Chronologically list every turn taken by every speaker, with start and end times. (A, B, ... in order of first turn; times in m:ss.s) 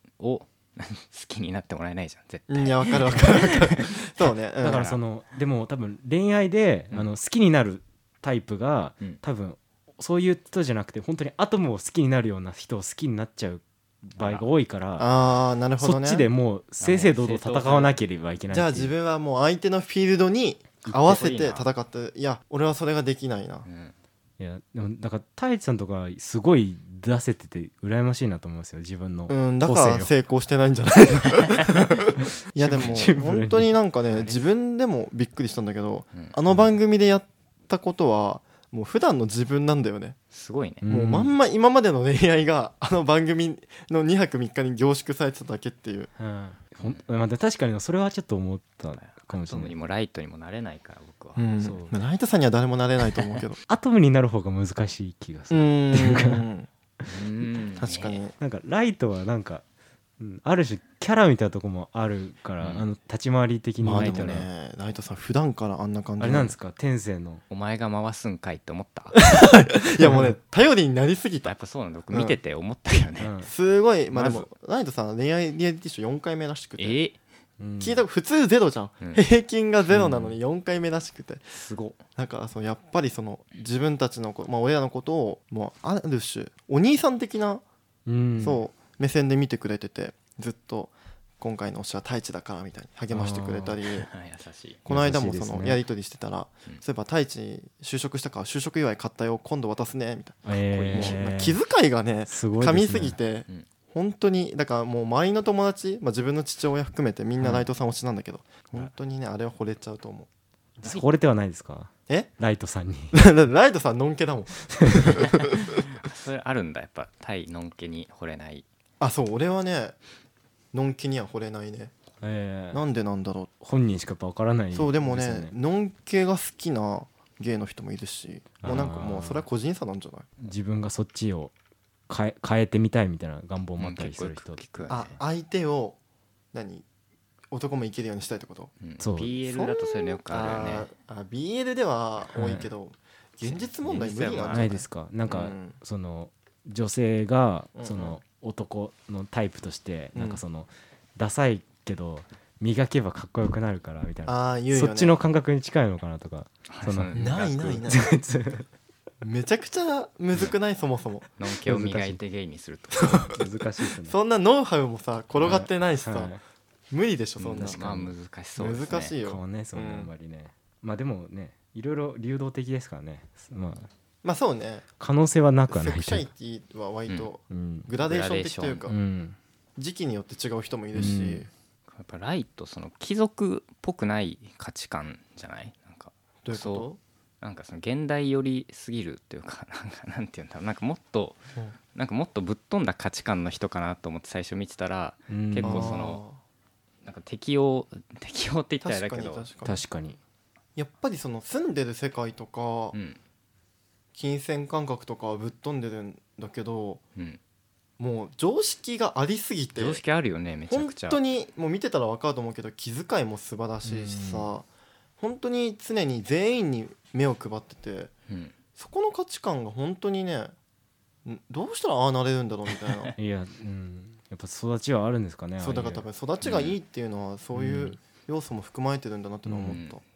0:00.2-0:04.0 A
0:02.5-0:04.8 B
0:04.6-0:15.1 C
0:04.6-0:05.0 A
0:14.2-0:14.4 A
0:15.0-0:16.2 B
0:15.8-0:18.9 C
0:16.8-0:18.0 A
0:18.5-0:23.6 B
0:20.8-0:21.7 A
0:23.6-0:23.9 A
0:24.4-0:30.1 C
0:29.3-0:40.2 B
0:32.6-0:33.7 C
0:40.3-0:40.8 A
0:40.8-0:41.3 C
0:40.9-0:46.1 B
0:46.2-0:49.7 C
0:49.0-0:51.4 A
0:51.4-0:53.6 B
0:51.6-0:51.9 C
0:53.7-0:56.4 C
0:55.5-0:56.7 B
0:57.0-0:58.2 A
0:57.8-0:58.3 B
0:58.4-0:59.6 C
1:00.2-1:04.5 C
1:02.6-1:02.8 A
1:03.8-1:06.5 B
1:03.9-1:04.4 A
1:06.2-1:07.4 C
1:07.5-1:09.1 A
1:09.1-1:11.5 B
1:10.0-1:10.3 C
1:11.4-1:13.3 A
1:12.1-1:12.4 B
1:13.2-1:13.5 C
1:13.4-1:17.0 B
1:14.1-1:14.4 A
1:16.8-1:17.2 A
1:17.6-1:18.0 C
1:17.8-1:21.5 B
1:19.9-1:20.4 C
1:21.5-1:22.0 A
1:22.2-1:27.6 B
1:28.0-1:28.6 C
1:28.4-1:34.1 B
1:33.1-1:33.8 C
1:33.9-1:34.8 A
1:34.8-1:40.4 B
1:34.9-1:35.8 C
1:40.4-1:41.6 C
1:40.7-1:41.2 A
1:40.9-1:50.3 B
1:42.3-1:43.2 C
1:47.4-1:47.7 C
1:50.8-1:53.2 C
1:53.1-1:55.6 B
1:54.8-1:55.3 C
1:55.2-1:58.6 A
1:59.0-1:59.9 B
2:00.7-2:01.9 B
2:02.2-2:02.8 C
2:02.7-2:03.5 B
2:03.6-2:05.5 C
2:04.7-2:10.3 B
2:08.6-2:09.4 C
2:10.4-2:11.5 C
2:12.1-2:14.9 C
2:13.8-2:15.2 A
2:14.9-2:16.0 B
2:16.5-2:16.8 B
2:17.5-2:18.7 B
2:18.8-2:20.9 A
2:19.0-2:19.3 C
2:19.5-2:25.8 B
2:22.3-2:22.7 C
2:23.4-2:24.7 A
2:24.5-2:38.7 C
2:27.8-2:28.2 B
2:30.1-2:30.4 B
2:34.3-2:35.1 B
2:36.7-2:37.8 A
2:37.1-2:38.1 B
2:39.2-2:41.3 B
2:41.4-2:43.4 A
2:41.6-2:42.2 C
2:43.0-2:43.4 B
2:43.3-2:44.2 C
2:44.0-2:46.3 B
2:45.4-2:46.4 C
2:46.9-2:47.9 B
2:47.4-2:49.2 A
2:47.6-2:48.1 C
2:48.6-2:50.1 B
2:49.2-2:53.9 C
2:54.2-2:54.9 B
2:55.0-2:56.3 C
2:55.7-2:59.0 B
2:57.5-2:57.9 C
2:58.0-2:58.8 A
2:58.8-2:59.4 C
2:59.8-3:01.5 B
3:00.9-3:01.4 C
3:01.9-3:06.9 A
3:06.4-3:07.0 B
3:07.4-3:11.4 A
3:11.9-3:16.2 A
3:15.3-3:16.0 C
3:15.6-3:16.4 B
3:17.0-3:19.5 A
3:18.8-3:19.8 B
3:19.6-3:20.2 C
3:20.8-3:22.9 B
3:22.9-3:23.2 A
3:24.1-3:27.0 B
3:28.0-3:30.0 B
3:29.8-3:31.2 A
3:30.7-3:34.6 B
3:33.8-3:34.5 C
3:35.2-3:38.1 B
3:38.3-3:38.5 A
3:38.8-3:40.5 B
3:41.2-3:43.1 B
3:42.8-3:43.1 A
3:43.2-3:46.0 C
3:45.6-3:50.0 B
3:46.4-3:46.8 A
3:47.5-3:48.0 C
3:49.4-3:49.8 C
3:49.6-3:50.0 A